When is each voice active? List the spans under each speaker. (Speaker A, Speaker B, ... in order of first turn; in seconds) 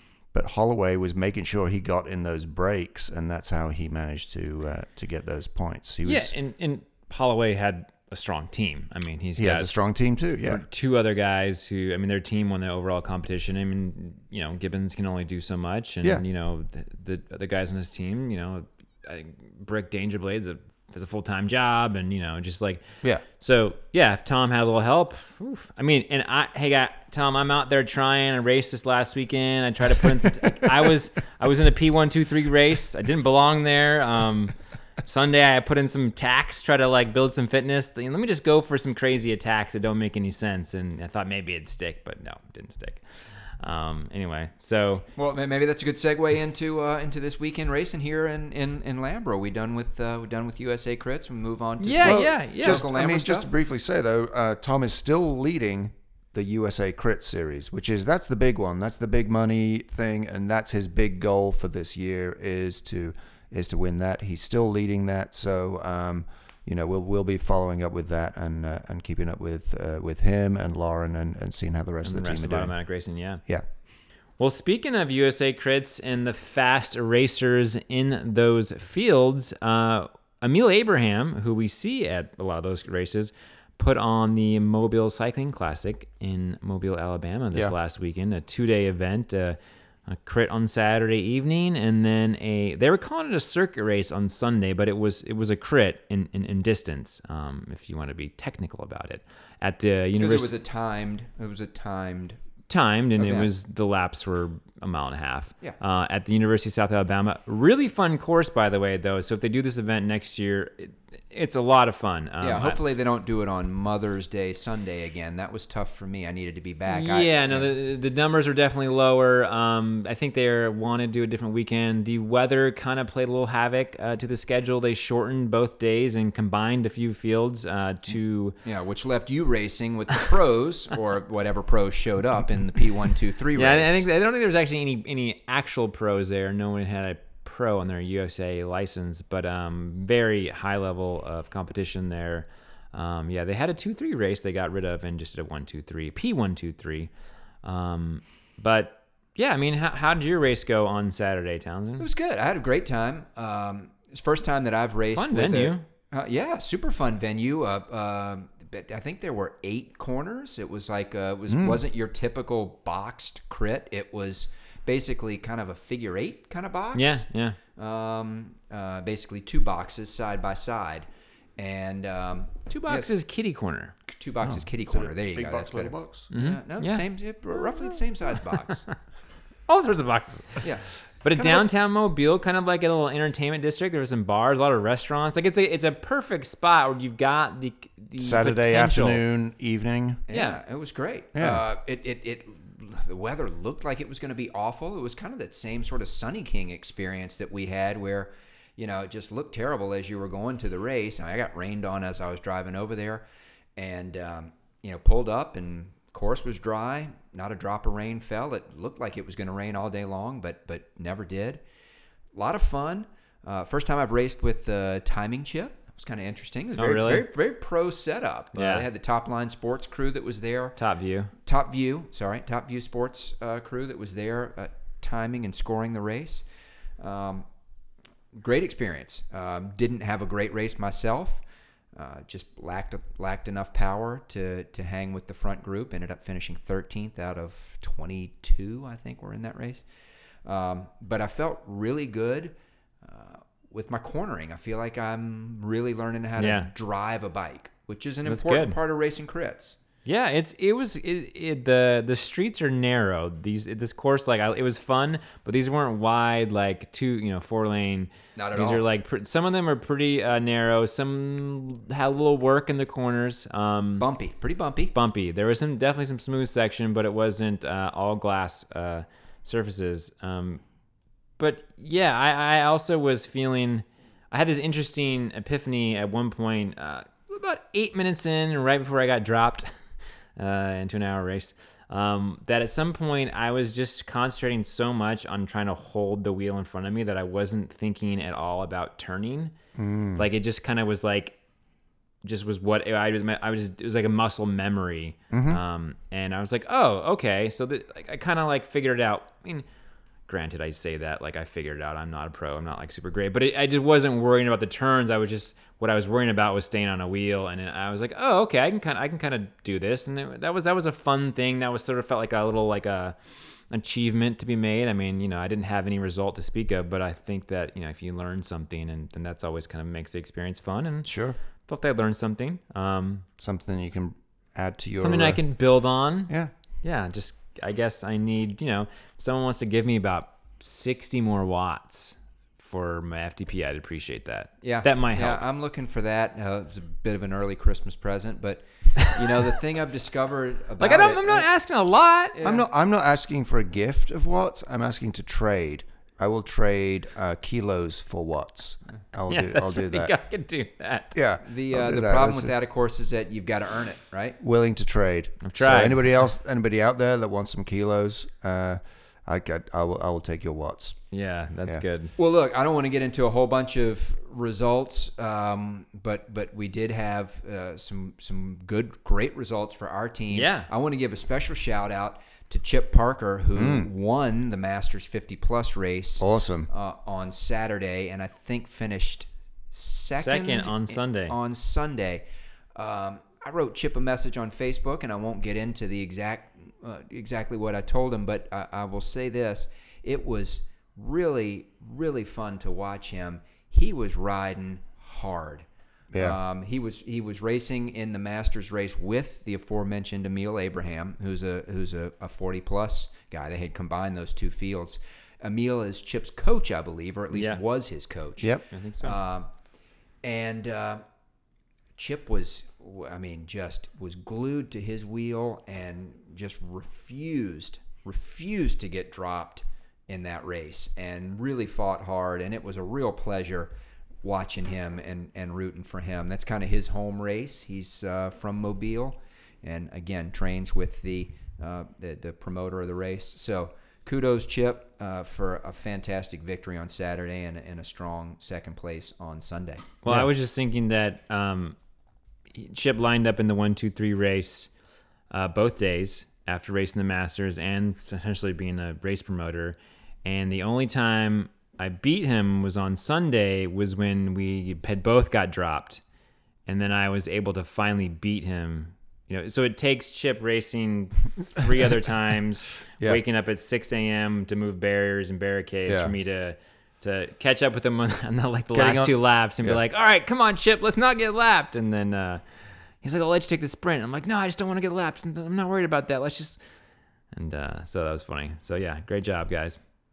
Speaker A: 0.3-6.3, 9.4-10.6, 52.0-72.7, 161.5-161.8, 174.4-176.3, 181.3-181.7, 188.2-190.2, 191.3-191.6, 289.8-290.2, 295.3-295.6, 321.0-321.4, 323.4-325.4, 342.4-350.1, 351.1-352.5, 354.4-361.0, 373.6-373.9, 376.2-376.7, 396.1-396.4, 465.9-466.1, 468.7-469.8
Speaker B: 6.0-9.7, 10.4-43.0, 43.6-45.0, 51.8-52.8, 72.0-73.4, 74.4-100.5, 102.7-112.8, 116.9-128.5, 133.5-147.1, 147.6-152.1, 155.1-155.8, 166.9-167.6, 172.8-174.0, 176.3-177.0, 179.7-180.7, 181.2-189.2, 190.3-190.6, 216.8-217.3, 218.5-218.9, 220.8-221.3, 246.4-246.7, 248.2-248.8, 250.1-264.1, 264.9-270.6, 271.4-279.7, 280.4-289.5, 290.2-291.4, 292.2-299.6, 300.3-313.1, 313.7-321.1, 321.7-323.2, 325.0-326.3, 326.8-335.4, 340.8-342.4, 349.3-351.1, 355.4-356.1, 361.1-362.1, 370.3-370.7, 380.2-381.3, 407.3-407.6, 408.7-409.2, 440.0-441.8, 442.5-444.7, 445.3-456.0, 456.6-472.4, 473.0-476.6, 477.3-479.8
Speaker C: 45.1-53.5, 100.2-102.4, 103.2-103.5, 112.4-117.7, 128.6-134.1, 152.0-171.1, 171.6-173.1, 174.2-178.9, 190.3-203.2, 203.8-211.6, 212.3-220.8, 221.4-226.4, 227.0-227.4, 228.3-239.8, 240.4-249.8, 258.4-258.8, 264.0-264.9, 334.6-341.5, 342.3-342.6, 351.4-354.4, 362.2-395.6, 396.2-409.5, 410.2-411.0, 411.9-439.9